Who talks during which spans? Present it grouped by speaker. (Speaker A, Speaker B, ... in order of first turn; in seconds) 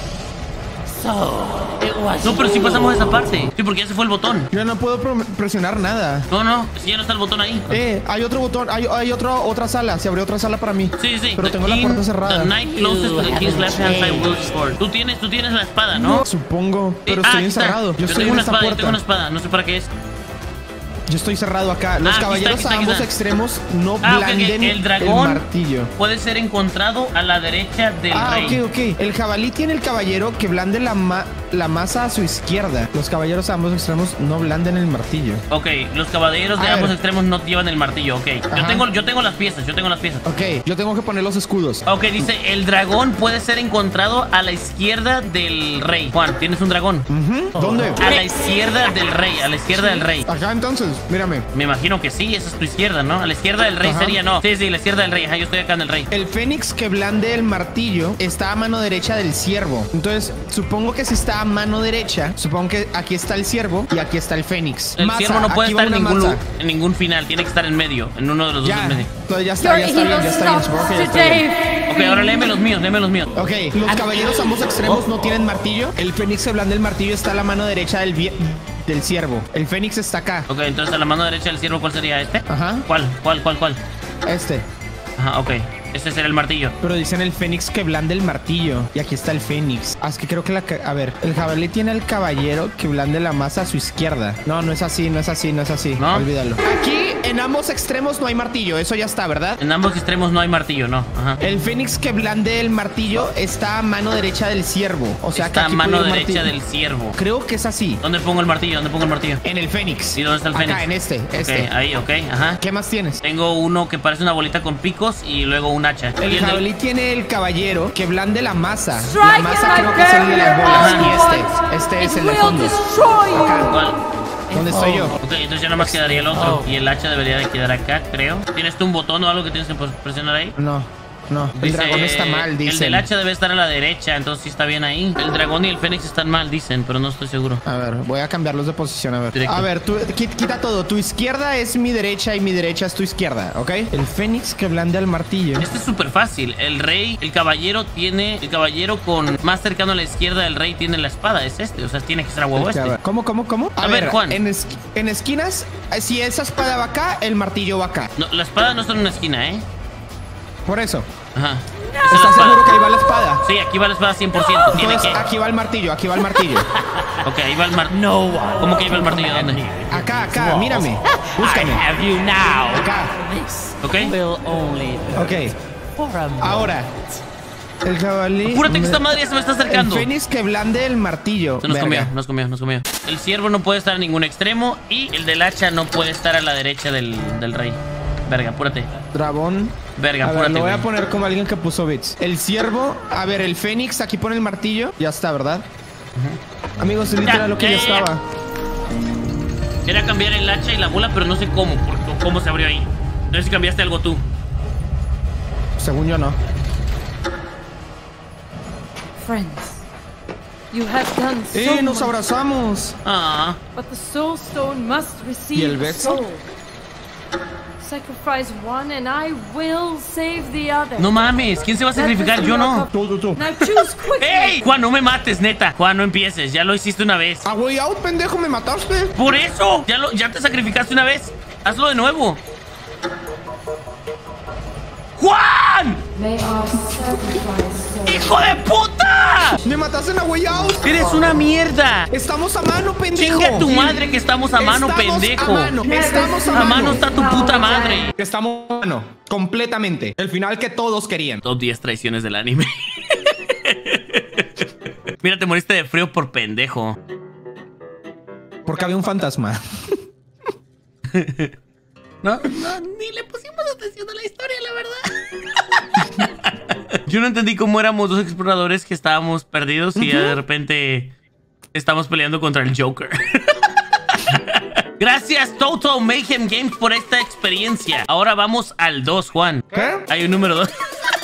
Speaker A: 0.8-3.3, 12.6-14.8, 124.5-125.1, 126.2-126.7, 166.1-177.2
Speaker B: 2.2-4.5, 6.3-7.8, 11.0-16.2, 17.1-19.9, 22.0-23.1, 24.0-25.4, 25.9-28.6, 35.5-40.2, 41.9-50.2, 51.5-56.1, 65.0-69.1, 71.9-73.3, 80.5-83.8, 85.2-86.7, 96.0-96.3, 99.6-101.4, 105.3-107.2, 108.0-109.4, 110.1-112.6, 113.2-116.6, 120.7-121.2, 123.7-124.0, 125.2-130.5, 131.6-137.6, 139.3-139.7, 145.6-153.0, 153.8-154.4, 158.2-159.6, 161.3-162.8, 163.4-165.2, 167.2-167.9, 168.6-169.6, 173.8-174.1, 178.4-180.1, 181.6-188.9, 189.9-190.9, 196.1-196.4, 197.2-198.1, 199.8-204.2, 213.0-213.6, 221.0-222.9, 223.6-227.4, 229.1-232.4, 235.2-236.0, 238.1-239.6, 240.8-242.1, 243.1-245.8, 246.4-248.1, 251.4-257.0, 261.1-261.5, 262.2-265.4, 266.0-271.1, 271.7-273.6, 274.1-280.7
Speaker C: 4.5-6.3, 7.7-12.5, 13.8-14.2, 15.9-19.0, 21.1-25.9, 28.1-35.4, 36.6-36.9, 38.5-38.9, 40.2-42.3, 47.1-48.0, 50.3-51.4, 53.8-54.2, 56.1-66.4, 68.6-71.5, 73.3-80.5, 82.5-82.8, 84.2-84.7, 86.8-99.6, 101.4-106.5, 107.1-108.0, 109.4-111.7, 112.6-113.2, 116.2-122.8, 124.5-125.2, 125.8-126.2, 130.6-133.1, 137.6-145.7, 152.6-158.1, 160.7-161.1, 162.1-163.4, 164.7-166.7, 169.9-171.8, 172.7-173.1, 175.1-175.5, 176.4-176.9, 177.8-179.2, 179.7-182.1, 189.1-195.7, 196.8-198.2, 205.8-206.4, 211.5-213.0, 215.5-216.2, 222.9-223.4, 227.4-229.1, 239.6-240.9, 242.1-244.0, 244.6-247.0, 248.2-251.4, 258.6-260.0, 270.0-270.4, 279.7-280.1
Speaker D: 48.1-48.3, 69.6-72.5, 118.9-123.9, 209.2-209.8, 210.7-212.2, 213.7-216.5, 217.8-221.2, 221.9-224.7, 236.1-238.6, 245.8-248.1